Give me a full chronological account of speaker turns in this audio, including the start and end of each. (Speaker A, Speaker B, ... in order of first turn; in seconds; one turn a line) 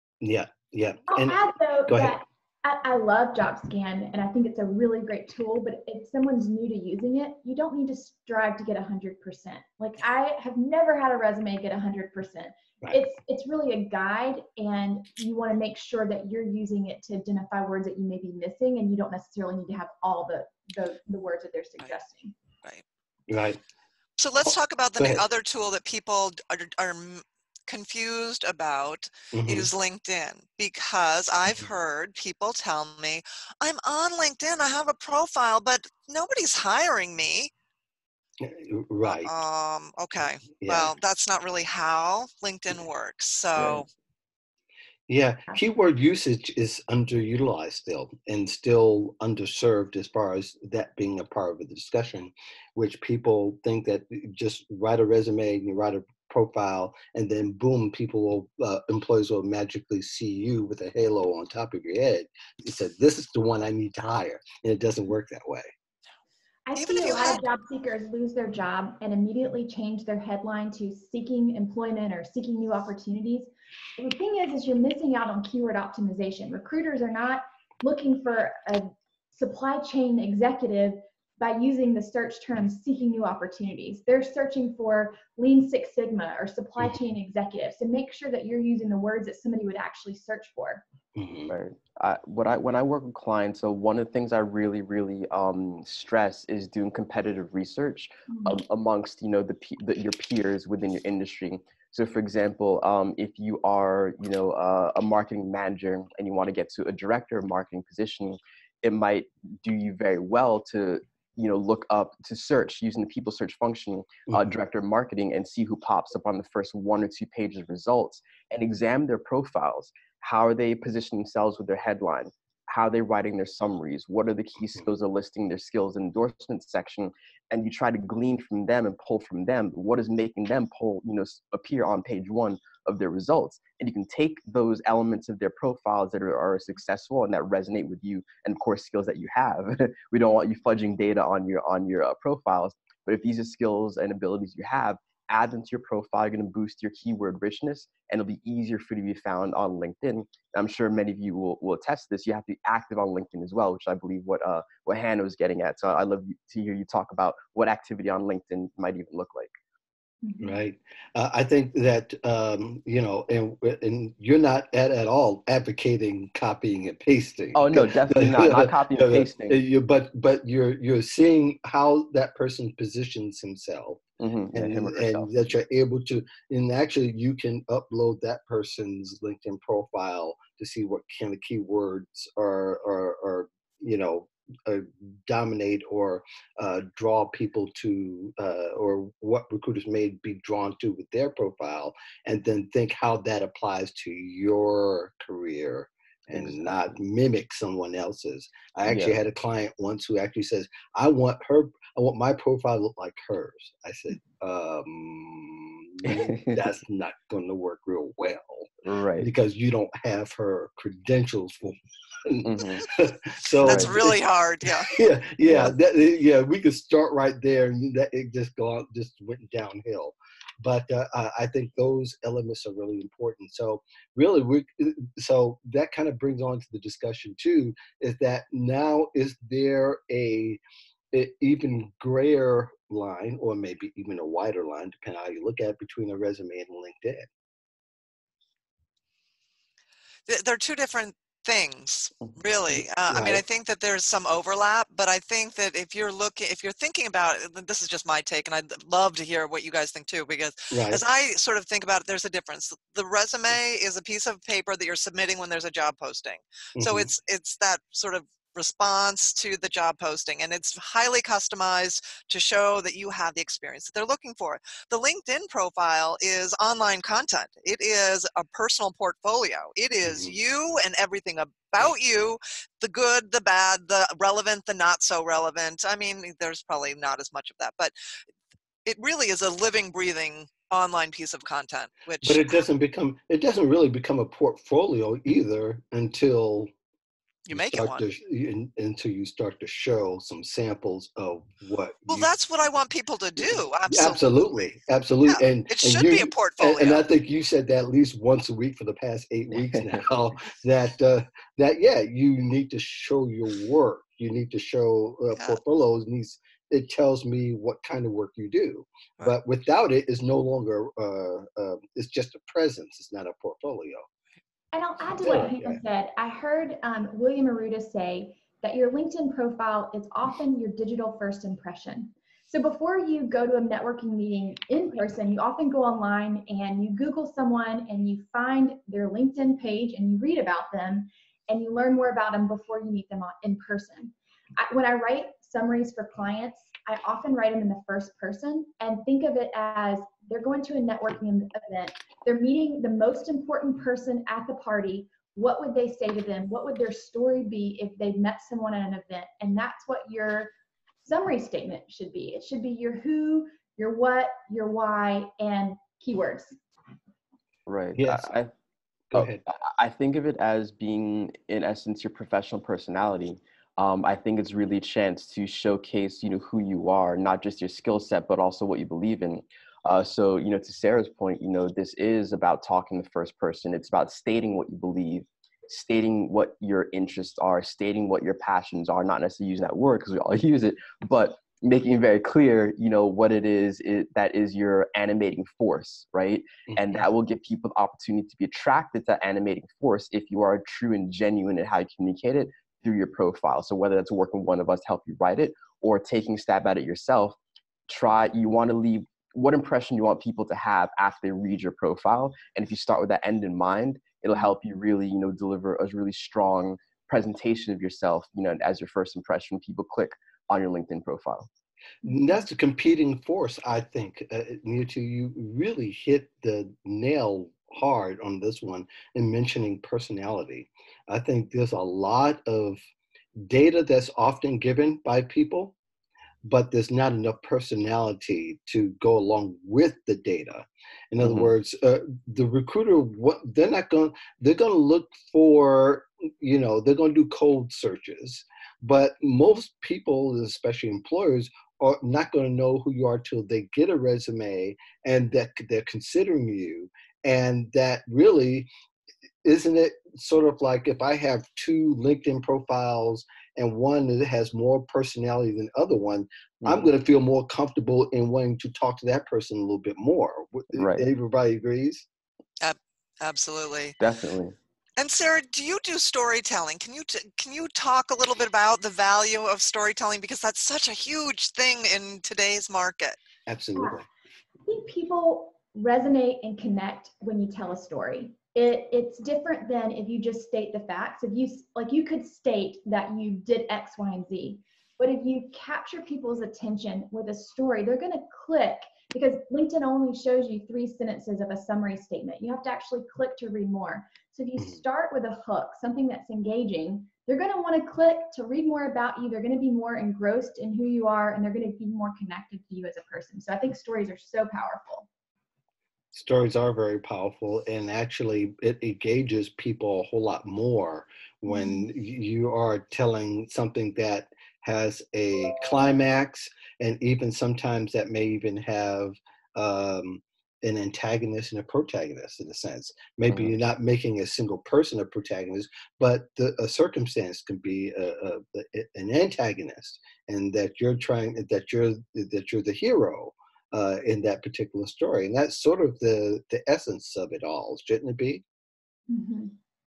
Speaker A: 0.2-2.2
Speaker B: 1.1-22.3
Speaker A: 23.3-23.6
Speaker C: 24.2-37.5
Speaker A: 25.0-25.2
Speaker A: 29.3-29.7
Speaker A: 38.4-39.3
Speaker C: 39.0-43.9
Speaker A: 40.6-40.9
Speaker A: 45.1-65.7
Speaker B: 66.7-90.8
Speaker C: 66.8-67.4
Speaker A: 91.2-91.5
Speaker D: 91.5-159.5
Speaker B: 98.3-98.6
Speaker A: 114.3-114.6
Speaker B: 160.2-160.5
Speaker A: 160.4-174.0
Speaker D: 167.5-169.6
Speaker D: 174.2-175.5
Speaker A: 174.5-214.2
Speaker D: 196.3-196.8
Speaker D: 198.9-199.2
Speaker D: 206.1-206.6
Speaker D: 208.8-209.3
Speaker D: 212.4-212.9
Speaker D: 213.6-213.9
Speaker C: 213.6-214.9
Speaker A: 214.9-230.6
Speaker D: 215.4-215.7
Speaker A: 231.1-237.3
Speaker C: 240.3-277.9
Speaker A: 243.1-243.4
Speaker A: 250.7-251.0
Speaker A: 256.7-257.1
Speaker A: 270.0-270.4
Speaker C: 278.8-282.6
Speaker A: 282.2-286.7
Speaker C: 287.5-288.0
Speaker A: 287.5-292.3
Speaker C: 292.1-294.4
Speaker A: 293.9-314.0
Speaker C: 295.2-297.0
Speaker B: 314.7-350.5
Speaker A: 315.2-315.8
Speaker B: 351.0-356.6
Speaker D: 357.7-358.5
Speaker A: 357.9-358.4
Speaker A: 359.1-359.4
Speaker D: 359.1-397.4
Speaker A: 386.7-387.1
Speaker D: 397.9-411.5
Speaker A: 412.0-422.8
Speaker B: 412.0-412.3
Speaker A: 423.4-425.7
Speaker A: 426.4-448.7
Speaker D: 431.2-431.5
Speaker A: 449.4-462.0
Speaker D: 456.6-456.9
Speaker D: 460.7-461.1
Speaker C: 462.6-464.0
Speaker D: 464.0-464.6
Speaker C: 465.0-473.2
Speaker A: 473.5-474.0
Speaker B: 474.6-505.1
Speaker A: 506.1-538.4
Speaker B: 511.5-511.9
Speaker D: 523.3-523.5
Speaker B: 539.1-539.5